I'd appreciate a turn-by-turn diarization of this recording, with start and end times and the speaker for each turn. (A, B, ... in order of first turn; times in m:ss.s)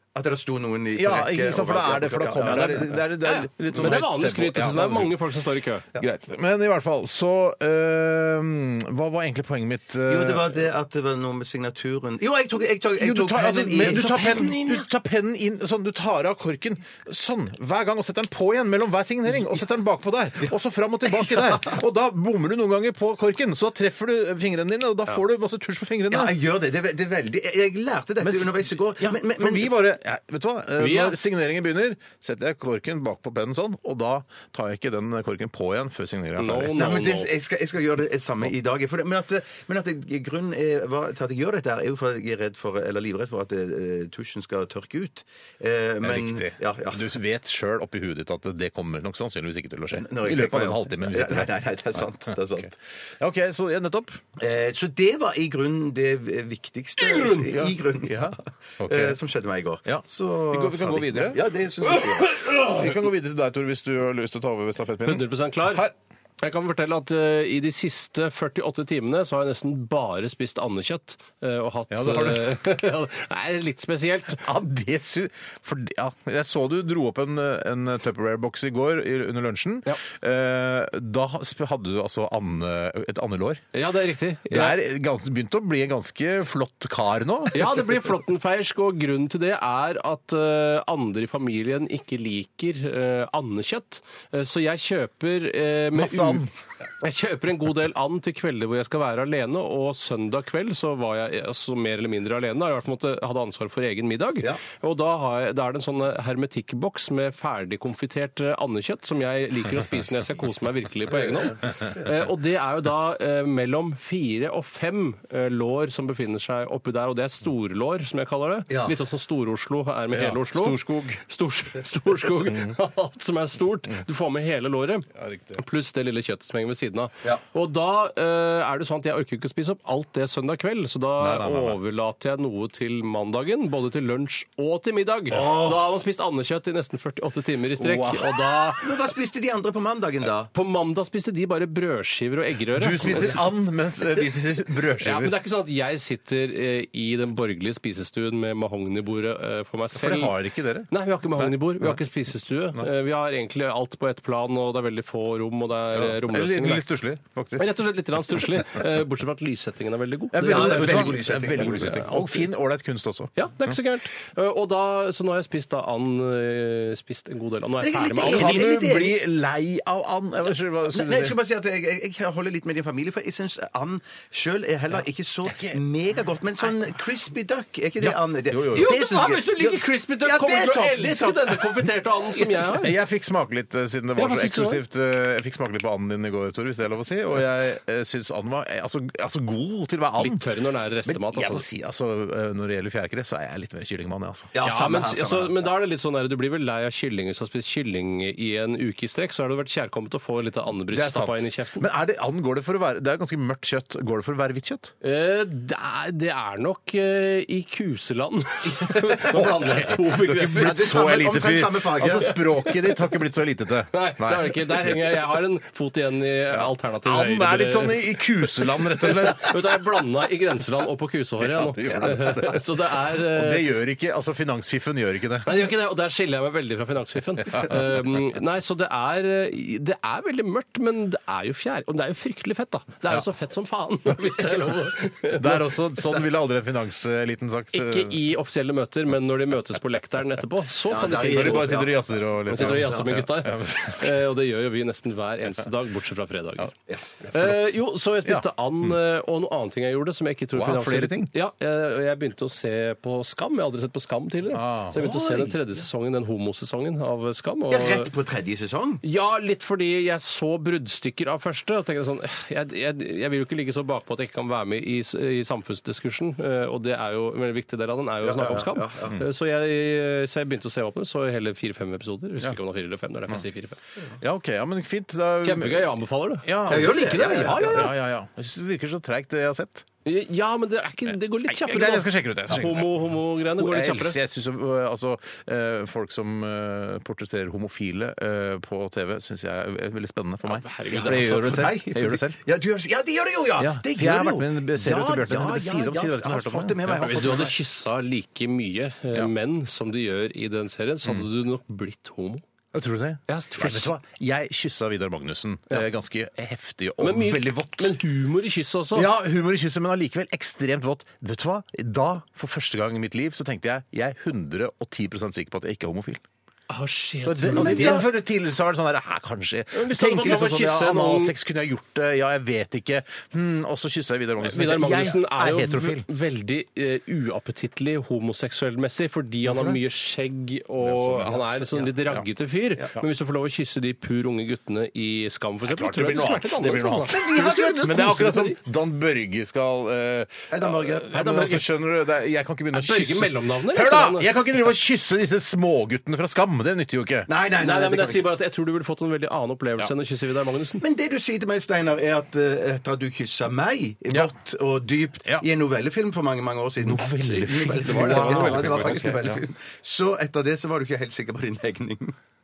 0:00.2-0:03.0 A
0:01.0-0:05.2 B
0:02.4-0:05.8 C
0:06.0-0:10.6 B
0:10.1-0:14.6 A
0:13.0-0:26.4 B
0:14.0-0:14.8 C
0:21.2-0:21.7 A
0:26.1-0:29.8 A
0:28.2-0:36.8 B
0:30.8-0:31.2 C
0:36.4-0:37.3 C
0:36.8-0:47.1 A
0:46.0-0:54.2 B
0:49.9-0:52.7 A
0:54.4-1:02.4 A
0:57.0-0:57.6 C
0:57.5-0:59.2 B
0:59.8-1:05.9 B
1:05.0-1:05.9 C
1:06.4-1:14.5 C
1:11.9-1:12.6 B
1:14.4-1:23.6 B
1:23.7-1:24.8 C
1:24.5-1:27.6 B
1:27.5-1:36.4 C
1:35.9-1:36.5 B
1:37.0-2:18.9 C
1:51.1-1:52.1 A
1:58.7-1:59.0 A
2:00.1-2:01.2 B
2:05.2-2:05.6 B
2:11.2-2:11.8 B
2:15.3-2:15.8 A
2:17.8-2:18.4 B
2:18.8-2:20.5 A
2:20.5-2:23.4 C
2:22.8-2:25.4 B
2:25.0-2:30.4 C
2:29.9-2:32.0 B
2:30.9-2:36.9 C
2:35.9-2:38.4 B
2:37.6-2:42.3 C
2:40.3-2:43.8 B
2:40.4-2:42.1 A
2:43.4-2:48.7 C
2:47.8-2:49.2 A
2:48.2-2:51.4 B
2:50.9-3:01.9 A
2:55.5-2:55.8 B
2:58.0-2:59.0 B
2:58.7-3:03.0 C
3:02.8-3:10.4 B
3:04.2-3:04.8 C
3:10.2-3:11.6 C
3:11.1-3:14.6 B
3:14.5-3:15.6 A
3:14.6-3:21.9 C
3:20.9-3:24.9 B
3:25.0-3:30.8 C
3:29.2-3:35.0 B
3:30.4-3:32.4 A
3:32.3-3:33.1 C
3:33.9-3:43.7 C
3:36.5-3:39.9 B
3:41.4-3:45.6 B
3:45.4-3:55.6 C
3:55.3-3:58.2 B
3:57.7-4:01.8 C
4:00.9-4:02.8 A
4:01.2-4:04.2 B
4:02.5-4:06.7 C
4:07.3-4:18.1 C
4:07.3-4:07.6 B
4:08.2-4:09.0 B
4:10.6-4:11.3 B
4:14.5-4:15.4 B
4:15.0-4:15.5 A
4:17.7-4:19.0 A
4:19.0-4:33.8 C
4:28.2-4:29.2 A
4:34.2-4:39.9 B
4:35.4-4:37.9 C
4:36.7-4:37.9 A
4:40.0-4:44.2 C
4:41.4-4:52.4 B
4:50.5-4:51.7 C
4:50.9-4:57.5 A
4:53.6-4:57.5 B
4:56.9-5:02.4 C
5:02.7-5:08.0 B
5:03.3-5:03.9 C
5:07.0-5:09.1 C
5:08.9-5:16.2 B
5:16.7-5:18.1 C
5:17.2-5:26.1 B
5:17.5-5:18.0 A
5:19.7-5:21.3 C
5:24.4-5:38.5 C
5:29.4-5:29.8 B
5:30.8-5:32.3 B
5:35.7-5:47.3 B
5:37.1-5:38.5 A
5:40.5-5:41.6 A
5:42.7-5:44.3 C
5:47.3-5:48.3 A
5:47.6-5:50.8 C
5:50.8-6:02.2 A
5:56.8-5:59.4 B
5:57.8-5:59.1 C